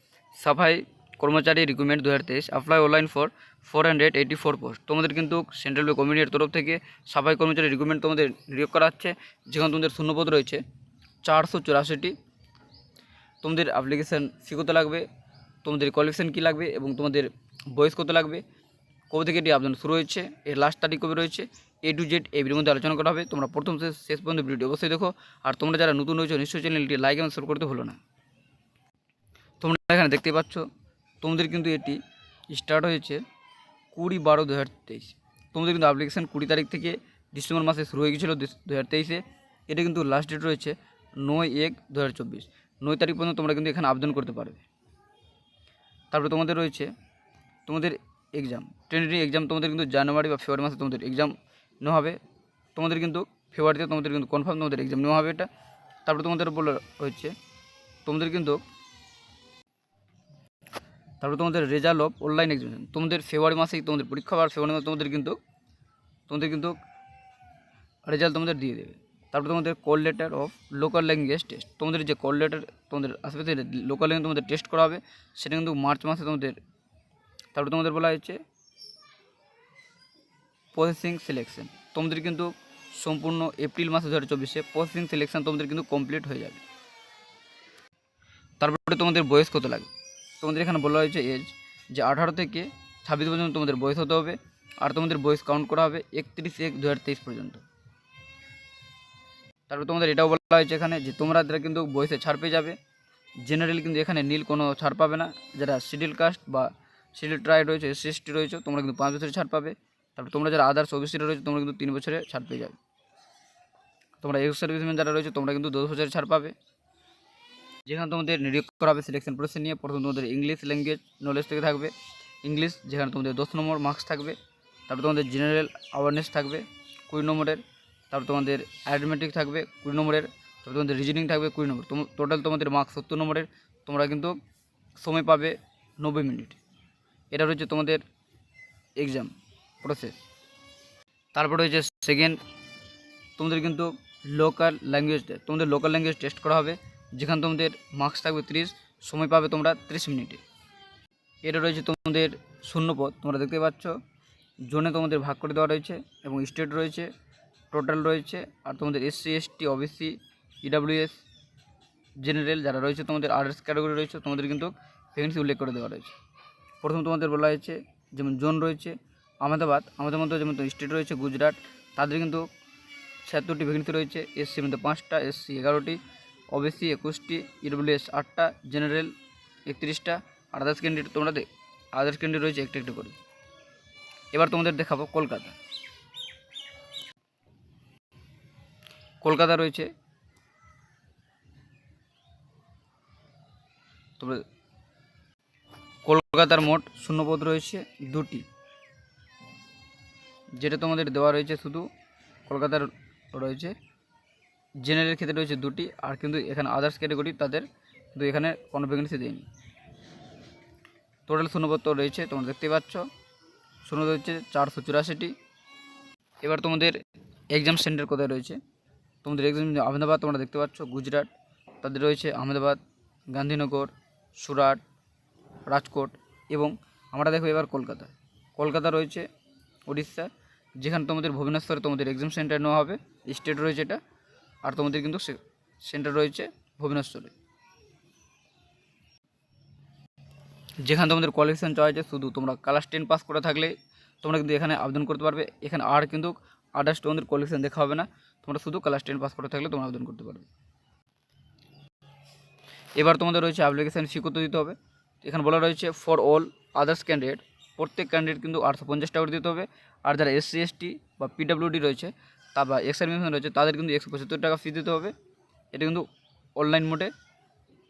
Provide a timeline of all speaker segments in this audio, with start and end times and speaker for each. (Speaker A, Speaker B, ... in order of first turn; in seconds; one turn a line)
Speaker A: 0.4-10.6
Speaker A: 11.2-12.2
Speaker A: 13.4-15.1
Speaker A: 15.6-18.4
Speaker A: 19.1-28.0
Speaker A: 29.6-30.7
Speaker A: 31.2-33.2
Speaker A: 33.9-44.6
Speaker A: 46.1-46.9
Speaker A: 47.7-52.2
Speaker A: 52.8-55.5
Speaker A: 56.0-57.3
Speaker A: 58.0-58.6
Speaker A: 61.2-65.4
Speaker A: 66.3-66.8
Speaker A: 68.0-76.6
Speaker A: 77.5-78.4
Speaker A: 80.7-86.6
Speaker A: 88.6-89.9
Speaker A: 90.4-97.6
Speaker A: 99.7-102.8
Speaker A: 103.4-112.8
Speaker A: 114.2-116.5
Speaker A: 117.9-124.4
Speaker A: 124.9-134.4
Speaker A: 135.0-136.6
Speaker A: 137.3-138.0
Speaker A: 139.0-140.2
Speaker A: 141.3-142.4
Speaker A: 143.4-150.4
Speaker A: 151.4-154.0
Speaker A: 154.7-157.1
Speaker A: 157.7-161.2
Speaker A: 162.2-166.2
Speaker A: 166.8-172.5
Speaker A: 173.2-176.0
Speaker A: 176.5-179.1
Speaker A: 179.7-183.2
Speaker A: 184.3-185.6
Speaker A: 189.2-189.9
Speaker A: 194.2-194.4
Speaker A: 196.0-198.4
Speaker A: 200.6-201.9
Speaker A: 202.5-203.8
Speaker A: 204.8-209.5
Speaker A: 211.3-213.1
Speaker A: 213.8-215.3
Speaker A: 216.4-217.0
Speaker A: 217.5-218.6
Speaker A: 219.2-222.8
Speaker A: 223.3-224.8
Speaker A: 225.7-229.3
Speaker A: 229.9-230.3
Speaker A: 230.8-234.0
Speaker A: 234.6-237.3
Speaker A: 240.8-250.5
Speaker A: 253.0-265.1
Speaker A: 265.7-266.1
Speaker A: 266.6-267.1